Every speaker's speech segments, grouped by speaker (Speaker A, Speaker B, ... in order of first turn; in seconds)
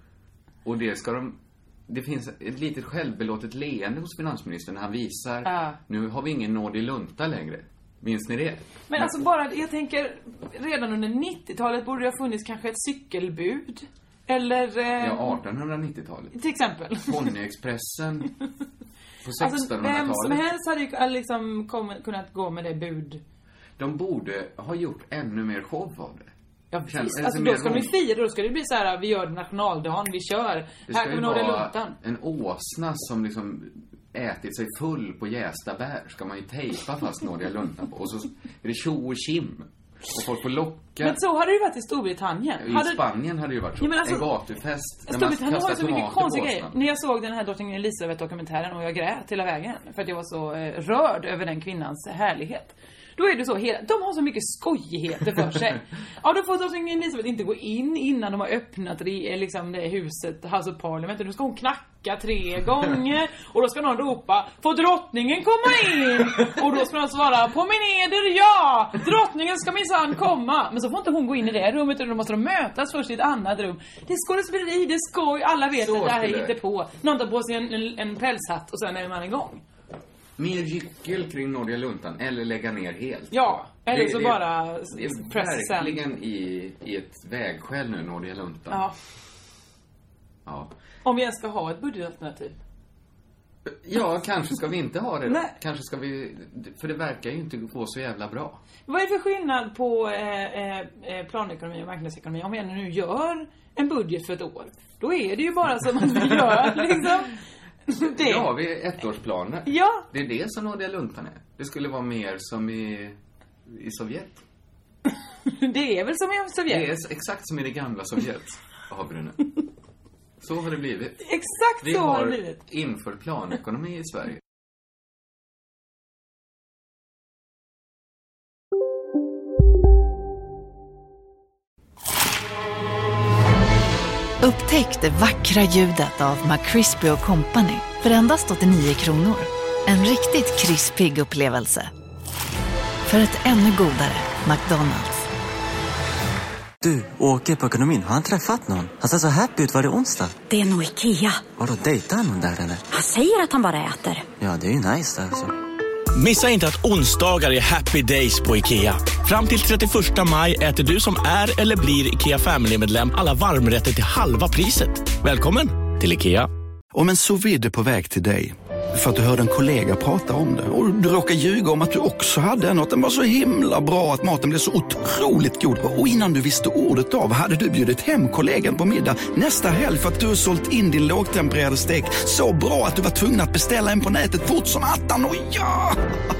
Speaker A: 0.6-9.1, 15.0-16.3, 17.0-18.3, 19.2-20.5, 23.8-26.3, 26.9-27.9, 30.9-41.2, 42.6-46.8, 75.8-76.6, 80.4-88.9, 90.5-90.7, 93.7-98.6, 106.5-107.0, 108.0-114.4, 116.7-119.5, 120.4-121.2, 121.8-124.4
Speaker B: 5.4-5.8, 8.9-15.4, 16.3-17.3, 19.4-23.2, 26.7-31.9, 41.0-43.0, 43.8-44.2, 45.1-79.6, 83.3-86.0, 91.0-92.5, 95.3-95.5, 98.9-108.5, 109.7-110.0, 115.5-116.9, 121.2-122.6
Speaker C: 134.4-141.9, 143.1-145.3
Speaker D: 146.8-150.3, 151.5-152.8, 154.4-155.5
Speaker E: 150.5-151.4, 152.9-154.2
Speaker F: 156.1-166.5
Speaker G: 166.9-186.1